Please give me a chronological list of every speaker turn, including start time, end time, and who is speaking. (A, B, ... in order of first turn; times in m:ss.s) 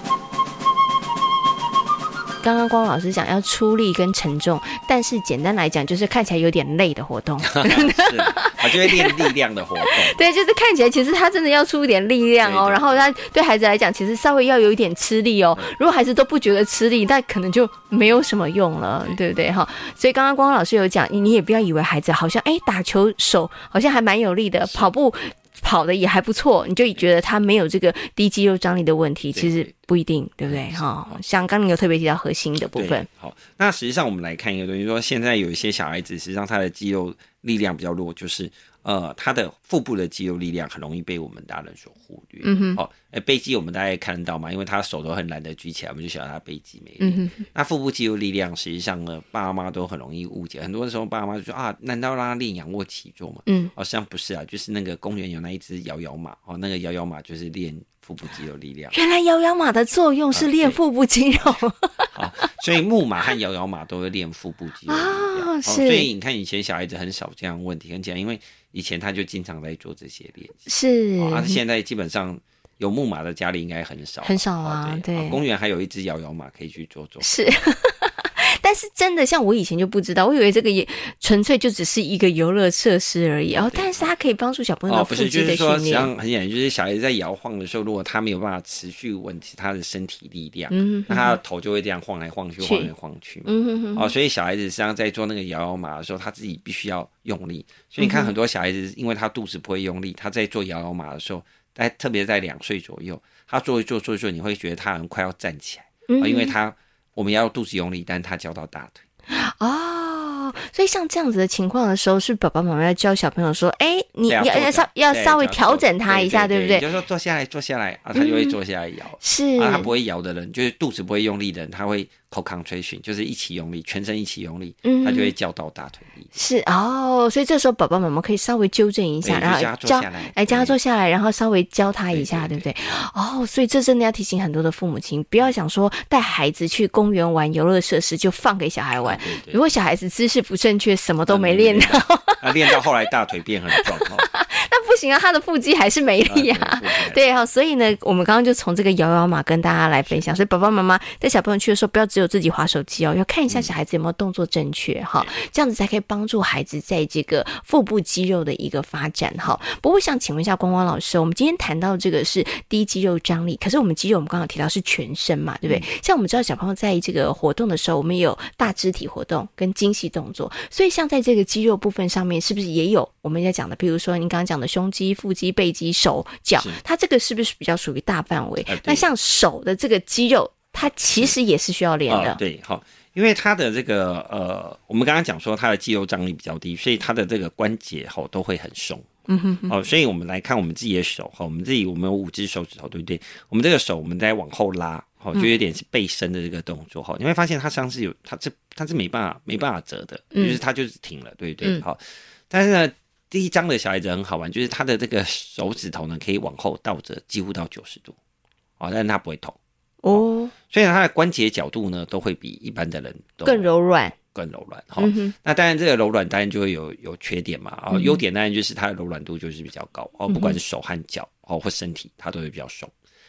0:02.4-0:09.3 A
0:07.4-0:10.2 B
0:09.8-0:33.1 A
0:12.4-0:13.0 B
0:24.6-0:24.9 B
0:29.3-0:29.7 B
0:30.4-0:31.2 B
0:32.7-0:58.9 B
0:42.4-0:42.8 A
0:47.0-0:47.4 A
0:53.5-0:53.7 A
0:58.9-1:02.5 A
1:00.3-1:00.8 B
1:02.1-1:10.7 B
1:04.9-1:06.1 A
1:10.7-1:11.6 A
1:11.2-1:17.3 B
1:14.2-1:15.4 A
1:17.2-1:26.1 A
1:23.5-1:24.1 B
1:24.9-1:49.0 B
1:30.7-1:31.4 A
1:32.6-1:32.9 A
1:33.4-1:34.1 A
1:38.0-1:38.3 A
1:46.1-1:46.5 A
1:49.3-1:56.8 A
1:54.3-2:06.3 B
1:58.1-1:58.6 A
1:59.2-1:59.9 A
2:04.8-2:05.3 A
2:06.3-2:22.8 A
2:09.2-2:10.8 B
2:12.1-2:12.6 B
2:19.0-2:19.6 B
2:21.3-2:24.3 B
2:23.8-3:02.4 A
2:26.2-2:27.3 B
2:56.6-2:56.8 B
2:58.6-2:59.1 B
3:02.1-3:09.1 B
3:09.3-3:09.7 A
3:09.7-3:28.2 B
3:20.3-3:20.6 A
3:28.8-3:29.6 B
3:30.0-3:30.5 A
3:30.1-3:33.7 B
3:33.4-3:34.2 A
3:34.3-3:42.9 B
3:35.0-3:35.3 A
3:37.9-3:38.2 A
3:40.3-3:40.6 A